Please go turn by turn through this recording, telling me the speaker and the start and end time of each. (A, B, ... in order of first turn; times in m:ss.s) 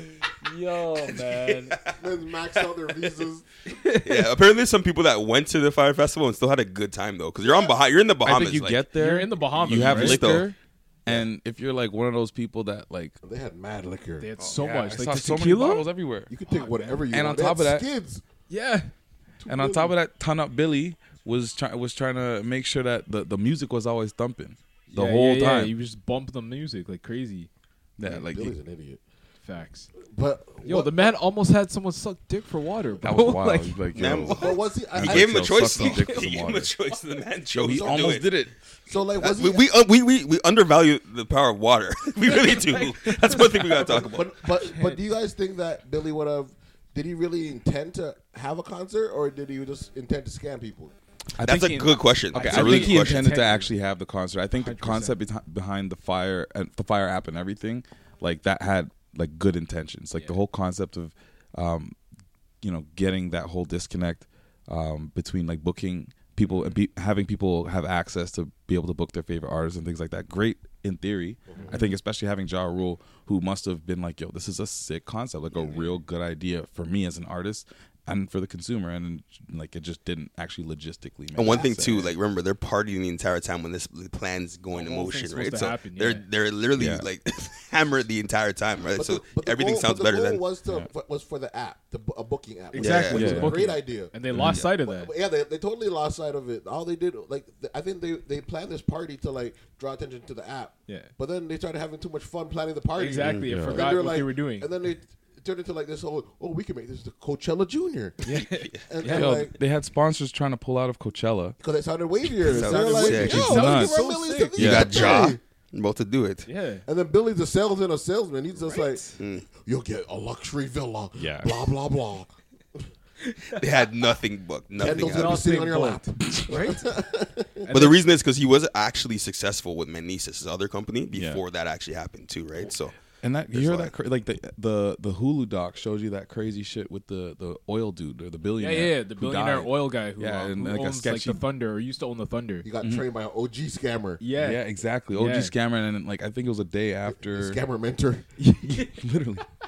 0:00.3-0:01.8 A
0:02.0-0:03.5 B
0:03.6-0:04.2 A
0:04.0-0:08.8 C
0:07.4-0:07.7 B
0:08.2-0:13.2 D
0:08.9-0:10.4 A
0:09.6-0:10.5 C
0:13.2-0:14.3 B
0:14.2-0:15.9 A
0:14.6-0:16.3 D
0:16.3-0:18.2 B
0:16.4-0:17.1 A
0:17.1-0:17.9 D
0:18.5-0:18.9 A
0:19.4-0:19.9 B
0:19.5-0:25.7 D
0:24.9-0:27.5 A
0:28.0-0:28.6 D
0:28.0-0:29.0 B
0:29.4-0:29.9 A
0:30.0-0:31.1 B
0:30.6-0:34.2 A
0:32.9-0:33.4 B
0:33.0-0:36.7 D
0:34.0-0:38.3 C
0:34.3-0:35.6 B
0:35.8-0:36.3 A
0:37.5-0:38.5 D
0:37.6-0:38.2 B
0:38.9-0:39.7 B
0:39.2-0:44.4 C
0:42.4-0:45.0 A
0:43.9-0:51.0 B
0:51.4-1:02.0 D
0:51.4-0:53.3 C
0:52.3-0:53.8 A
0:54.6-0:55.2 A
1:00.1-1:00.4 A
1:02.6-1:22.1 D
1:11.5-1:11.8 B
1:21.4-1:30.4 C
1:24.7-1:26.3 A
1:26.8-1:27.1 D
1:28.9-1:48.2 B
1:32.7-1:35.1 A
1:32.8-1:33.4 C
1:33.1-1:33.6 D
1:34.3-1:34.6 D
1:34.4-1:34.6 C
1:40.9-1:41.1 A
1:43.0-1:44.7 A
1:43.2-1:43.5 C
1:43.5-1:44.0 D
1:48.2-1:49.4 A
1:48.9-1:49.6 B
1:49.0-1:51.6 D
1:51.6-1:55.4 B
1:52.4-1:53.7 C
1:52.4-1:54.6 A
1:53.1-1:55.1 D
1:54.6-1:56.5 C
1:56.5-1:56.8 A
1:56.9-2:02.3 B
1:58.6-1:59.2 A
1:59.2-1:59.5 C
2:01.2-2:01.5 D
2:03.6-2:05.5 C
2:04.8-2:08.0 B
2:04.8-2:06.8 A
2:07.7-2:13.0 C
2:11.1-2:11.4 D
2:13.2-2:21.4 D
2:13.5-2:13.9 C
2:18.6-2:22.7 A
2:22.6-2:24.2 B
2:22.8-2:23.1 D
2:24.2-2:25.5 A
2:24.4-2:27.6 D
2:27.2-2:28.3 B
2:28.4-2:29.0 A
2:28.7-2:29.5 D